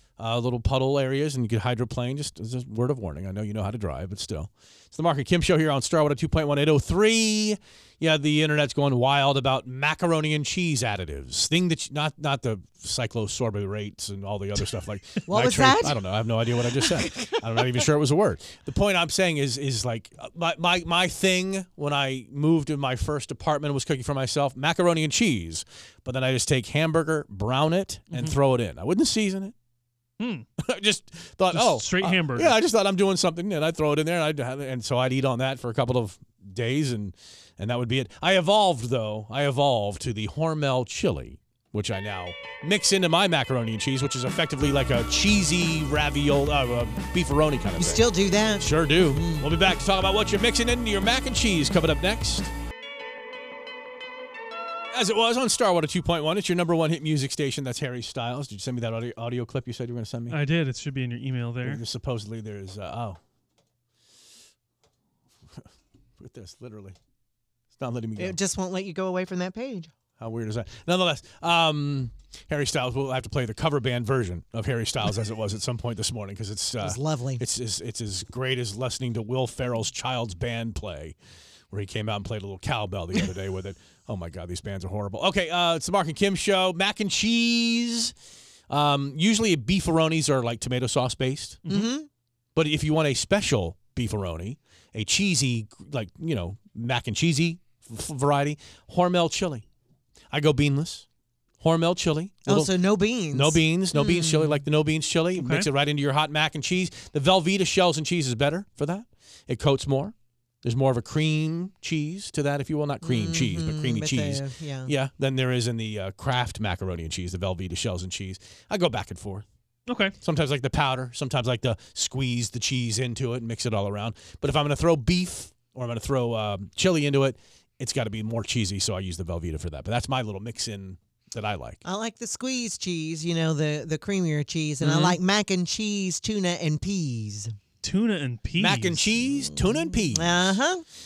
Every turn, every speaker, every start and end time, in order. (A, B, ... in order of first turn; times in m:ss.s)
0:00.2-0:29.5 A
0:15.3-0:16.0 B
0:16.8-0:17.4 B
0:28.1-0:28.4 C
0:30.2-0:30.5 C
0:30.6-0:52.5 A
0:31.5-0:32.6 C
0:47.8-0:49.5 B
0:54.9-1:00.4 A
1:00.3-1:01.8 C
1:01.6-1:03.2 A
1:06.2-1:07.0 A
1:07.8-1:08.4 A
1:08.2-1:09.9 B
1:10.2-1:21.2 A
1:16.8-1:17.4 B
1:21.7-1:28.2 A
1:28.7-1:31.6 A
1:31.6-1:31.9 C
1:31.7-1:32.1 B
1:32.6-1:39.6 A
1:40.3-1:41.1 A
1:41.6-1:42.8 A
1:42.5-1:44.6 B
1:43.3-1:59.4 A
1:45.4-1:45.7 C
1:53.0-1:54.9 B
1:59.9-2:00.2 C
2:00.2-2:11.8 A
2:11.8-2:17.5 B
2:14.8-2:15.1 C
2:17.8-2:19.1 C
2:18.6-2:20.6 A
2:19.5-2:20.8 B